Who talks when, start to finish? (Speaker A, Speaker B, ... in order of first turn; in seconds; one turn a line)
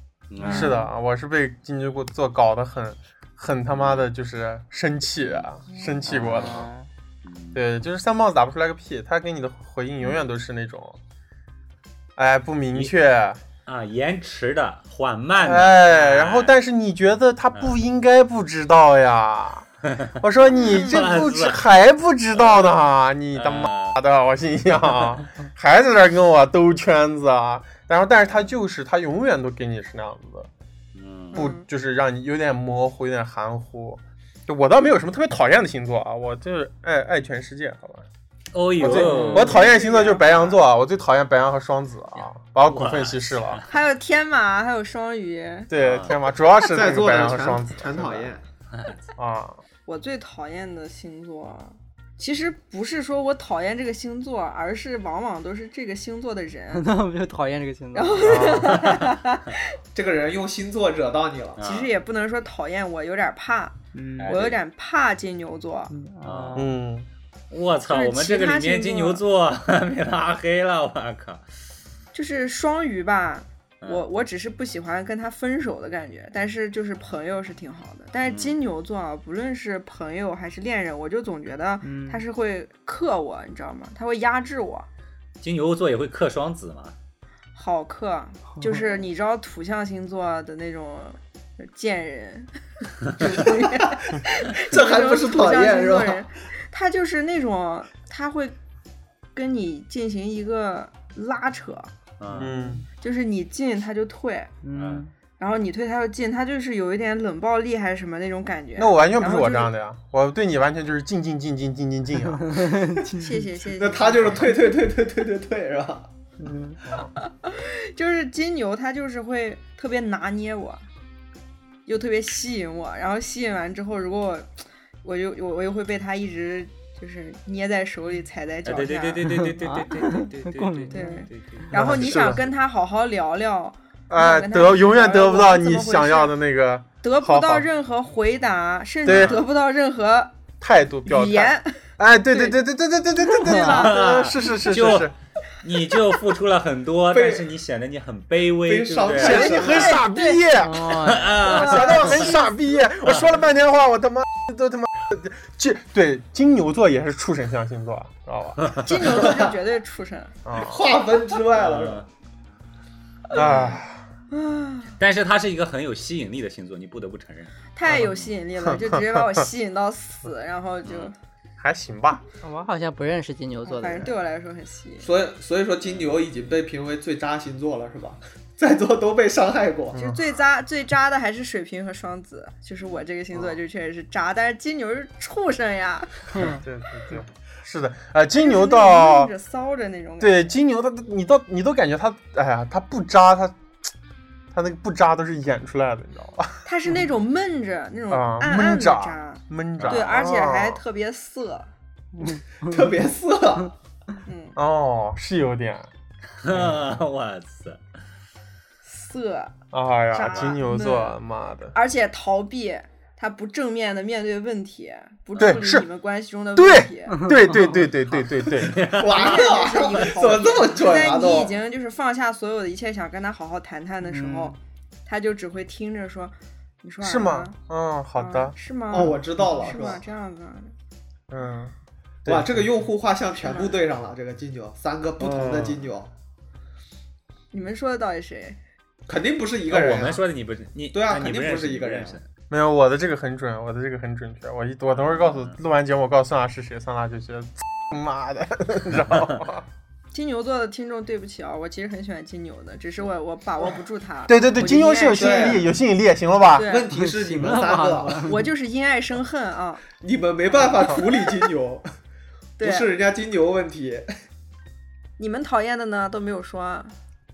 Speaker A: 0.3-0.8
Speaker B: 0.4-6.7
Speaker C: 0.5-0.7
Speaker A: 3.7-4.0
Speaker C: 6.0-6.9
Speaker A: 6.1-6.7
Speaker A: 7.2-7.6
Speaker B: 7.5-11.0
Speaker B: 12.2-13.4
Speaker A: 13.7-16.5
Speaker B: 15.4-19.7
Speaker A: 19.9-21.6
Speaker B: 20.2-30.5
Speaker D: 20.5-21.1
Speaker A: 22.4-22.7
Speaker A: 23.4-24.0
Speaker A: 30.9-31.5
Speaker D: 31.3-31.6
Speaker B: 31.3-38.0
Speaker A: 38.5-39.6
Speaker B: 38.8-43.6
Speaker D: 38.8-40.6
Speaker C: 39.0-39.5
Speaker A: 42.7-43.7
Speaker D: 43.7-45.7
Speaker B: 45.7-48.3
Speaker A: 45.8-46.1
Speaker E: 46.6-48.4
Speaker B: 49.2-49.6
Speaker D: 49.9-56.9
Speaker C: 56.7-58.9
Speaker D: 57.9-59.7
Speaker A: 58.2-59.1
Speaker E: 59.9-61.6
Speaker A: 61.6-61.9
Speaker D: 61.6-65.9
Speaker C: 63.9-64.4
Speaker A: 64.2-64.6
Speaker C: 65.9-66.7
Speaker A: 66.2-66.7
Speaker B: 66.5-67.1
Speaker A: 67.5-71.4
Speaker D: 67.9-69.2
Speaker D: 72.1-84.9
Speaker A: 78.2-78.6
Speaker C: 81.8-82.2
Speaker A: 85.4-87.0
Speaker D: 87.5-92.5
Speaker C: 88.5-88.8
Speaker D: 93.1-98.5
Speaker E: 93.2-96.2
Speaker D: 99.3-101.9
Speaker A: 102.2-102.6
Speaker B: 102.3-102.8
Speaker D: 103.0-104.5
Speaker C: 104.6-105.1
Speaker A: 104.7-105.0
Speaker D: 105.4-109.7
Speaker B: 108.8-112.6
Speaker C: 112.4-113.1
Speaker D: 113.1-114.6
Speaker E: 113.7-116.0
Speaker C: 116.4-116.8
Speaker D: 117.2-120.8
Speaker D: 121.9-129.2
Speaker A: 128.7-131.7
Speaker C: 129.2-131.8
Speaker D: 130.9-136.3
Speaker B: 131.7-132.5
Speaker B: 134.1-137.7
Speaker D: 137.0-140.3
Speaker B: 139.0-139.4
Speaker A: 139.1-139.4
Speaker B: 140.6-145.1
Speaker D: 141.0-141.8
Speaker D: 142.3-142.6
Speaker D: 143.1-143.9
Speaker C: 143.5-143.8
Speaker A: 143.7-149.6
Speaker E: 147.1-147.5
Speaker E: 148.6-150.0
Speaker B: 149.1-150.9
Speaker D: 149.2-150.5
Speaker C: 150.5-151.6
Speaker A: 150.9-152.3
Speaker D: 151.4-152.4
Speaker B: 151.6-159.3
Speaker D: 158.8-160.3
Speaker E: 159.2-159.5
Speaker B: 160.4-160.8
Speaker E: 160.5-162.0
Speaker A: 161.5-162.1
Speaker B: 163.3-164.0
Speaker A: 163.3-163.8
Speaker D: 164.3-164.9
Speaker A: 165.0-167.6
Speaker D: 167.7-171.1
Speaker B: 167.9-169.4
Speaker A: 170.8-171.1
Speaker B: 171.6-172.2
Speaker C: 172.4-174.1
Speaker D: 173.6-175.1
Speaker E: 175.0-180.0
Speaker B: 179.9-180.2
Speaker D: 179.9-186.3
Speaker C: 186.3-186.6
Speaker B: 186.4-189.3
Speaker D: 188.3-190.4
Speaker B: 190.2-193.6
Speaker B: 194.5-196.6
Speaker D: 196.6-201.7
Speaker B: 198.1-200.8
Speaker A: 199.8-200.1
Speaker C: 202.1-202.8
Speaker E: 202.6-203.7
Speaker D: 204.2-204.6
Speaker B: 204.6-205.9
Speaker A: 206.4-207.8
Speaker B: 206.5-206.9
Speaker D: 208.8-209.6
Speaker B: 209.7-211.8
Speaker D: 210.1-211.2
Speaker D: 211.7-217.3
Speaker B: 215.4-215.8
Speaker B: 216.6-218.9
Speaker C: 217.1-217.9
Speaker A: 218.6-219.2
Speaker E: 218.7-221.6
Speaker D: 219.1-224.5
Speaker C: 224.0-224.6
Speaker D: 225.1-227.5
Speaker B: 227.0-228.6
Speaker D: 228.2-230.7
Speaker E: 228.9-230.0
Speaker B: 231.3-231.7
Speaker B: 232.2-232.7
Speaker E: 232.2-236.1
Speaker D: 233.4-233.8
Speaker B: 235.2-235.9
Speaker D: 237.5-238.6
Speaker E: 239.1-240.2
Speaker A: 239.7-242.2
Speaker E: 240.9-242.2
Speaker B: 242.5-249.6
Speaker A: 244.9-245.6
Speaker A: 248.9-249.4
Speaker D: 250.1-255.6
Speaker B: 254.3-256.7
Speaker E: 255.1-255.7
Speaker D: 256.5-256.9
Speaker E: 256.6-258.3
Speaker C: 256.9-258.4
Speaker D: 258.2-259.8
Speaker E: 260.0-261.8
Speaker D: 262.6-262.9
Speaker E: 262.6-264.1
Speaker D: 265.2-266.9